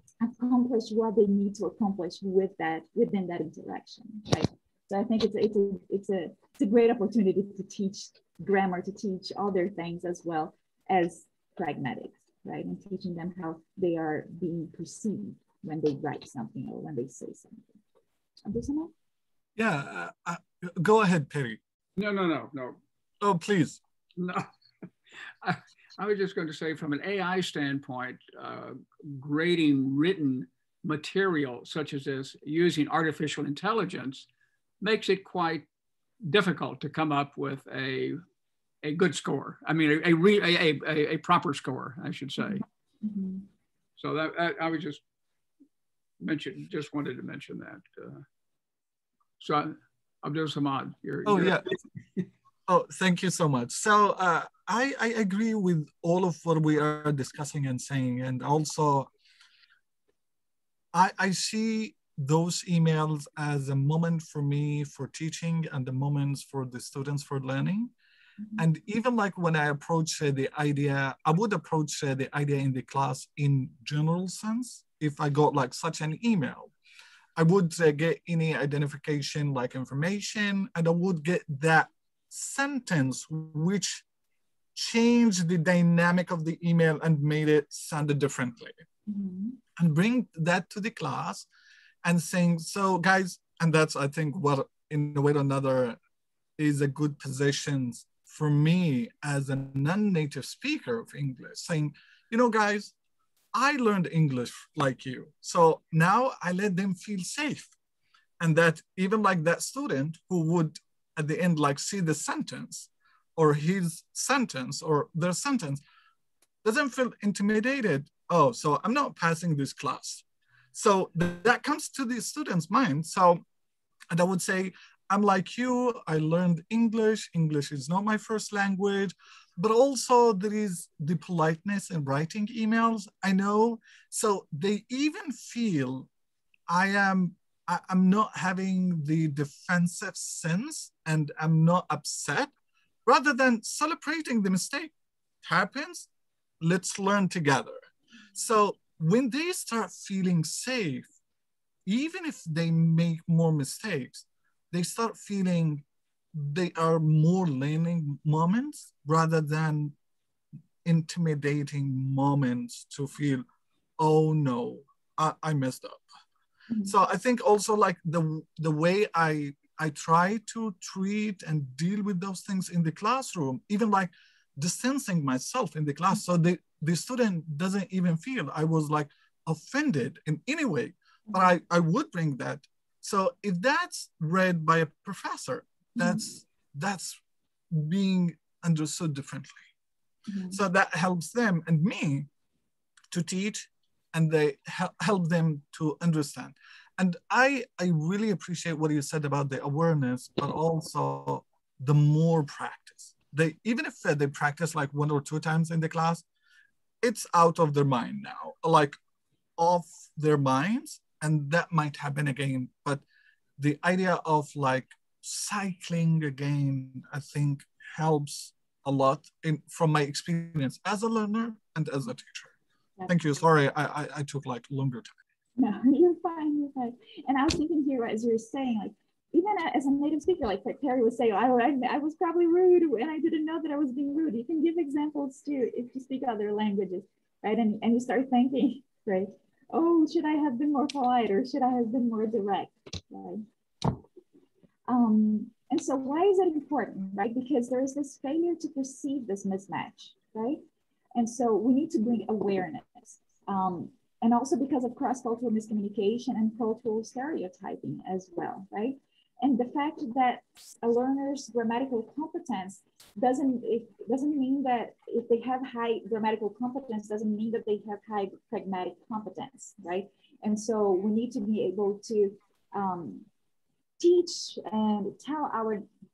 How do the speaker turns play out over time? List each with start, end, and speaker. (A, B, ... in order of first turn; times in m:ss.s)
0:00.2-0:17.8 A
0:18.5-0:18.9 A
0:19.6-0:21.6 B
0:22.0-0:22.8 C
0:23.2-0:23.8 B
0:24.2-0:24.5 C
0:25.4-0:34.3 C
0:34.8-0:35.6 C
0:36.2-0:38.2 C
0:38.8-0:42.6 C
0:42.4-0:43.4 A
0:44.0-0:45.0 C
0:46.2-0:48.2 C
0:49.4-0:51.7 C
0:51.3-0:51.6 B
0:52.7-0:59.1 B
1:00.9-1:07.9 B
1:08.6-1:16.7 B
1:17.4-1:24.0 B
1:24.8-1:28.7 B
1:29.1-1:29.6 A
1:29.8-1:31.5 B
1:32.0-1:36.0 B
1:36.6-1:42.9 B
1:43.5-1:47.7 B
1:48.4-1:55.8 B
1:56.6-2:03.4 B
2:04.1-2:16.1 B
2:16.7-2:22.5 B
2:23.1-2:26.1 B
2:26.6-2:27.8 B
2:28.4-2:31.1 B
2:31.9-2:40.0 B
2:40.8-2:43.4 B
2:44.0-2:46.0 B
2:46.8-3:07.2 B
3:06.0-3:06.2 A
3:07.7-3:09.6 B
3:10.3-3:10.6 A
3:10.5-3:12.3 B
3:13.1-3:26.2 B
3:27.0-3:29.0 B
3:29.6-3:33.0 B
3:33.6-3:42.5 B
3:43.1-3:45.1 B
3:45.6-4:03.4 A
4:04.9-4:10.6 A
4:11.2-4:33.3 A
4:34.0-4:35.9 A